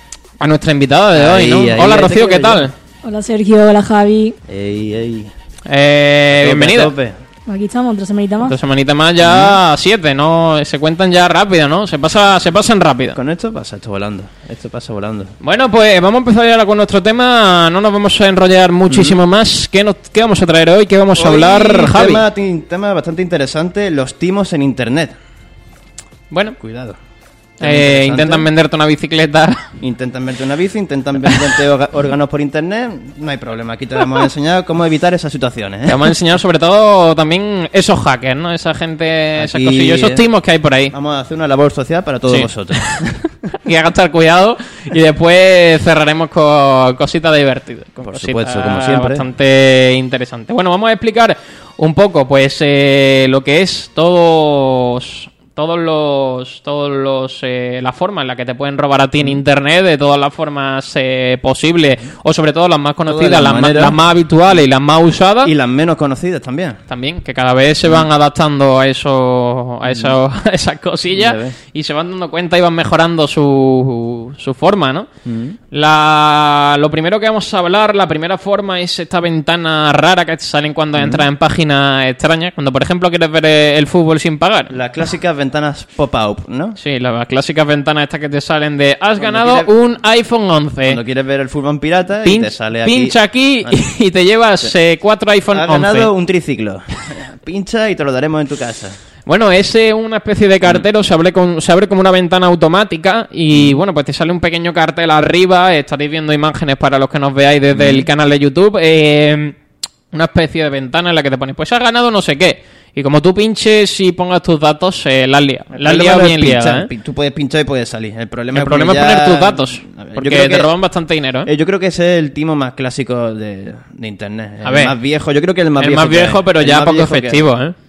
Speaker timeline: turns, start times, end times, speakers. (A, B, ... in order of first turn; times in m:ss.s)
0:00.4-0:02.7 A
0:01.1-0:02.7 B
0:03.0-0:04.4 C
0:04.4-0:05.3 B
0:05.7-0:06.9 A
0:06.3-0:07.2 B
0:07.5-0:08.5 C
0:08.5-0:13.2 A
0:09.2-0:09.6 B
0:13.1-0:15.3 B
0:15.4-0:22.2 A
0:18.9-0:19.2 B
0:21.2-0:25.1 B
0:26.3-0:26.6 A
0:26.6-0:27.0 B
0:27.6-0:28.5 B
0:27.6-0:29.7 A
0:29.8-0:36.1 B
0:35.9-0:40.9 A
0:39.4-0:40.2 B
0:40.9-0:43.3 B
0:42.3-0:43.0 A
0:43.6-1:05.5 A
0:48.1-0:49.2 B
1:03.1-1:04.0 B
1:05.4-1:06.8 B
1:06.9-1:15.1 A
1:09.8-1:10.2 B
1:11.1-1:11.6 B
1:15.2-1:15.6 B
1:15.7-1:24.7 A
1:21.0-1:21.2 B
1:24.7-1:26.8 B
1:26.8-1:31.0 A
1:29.2-1:29.7 B
1:30.8-1:33.8 B
1:32.2-1:36.1 A
1:35.5-1:39.0 B
1:39.2-1:49.6 A
1:43.5-1:43.8 B
1:47.7-1:48.1 B
1:50.1-1:56.9 A
1:55.7-2:00.7 B
1:58.5-2:01.5 A
2:01.4-2:07.5 B
2:04.6-2:05.0 A
2:05.8-2:07.7 A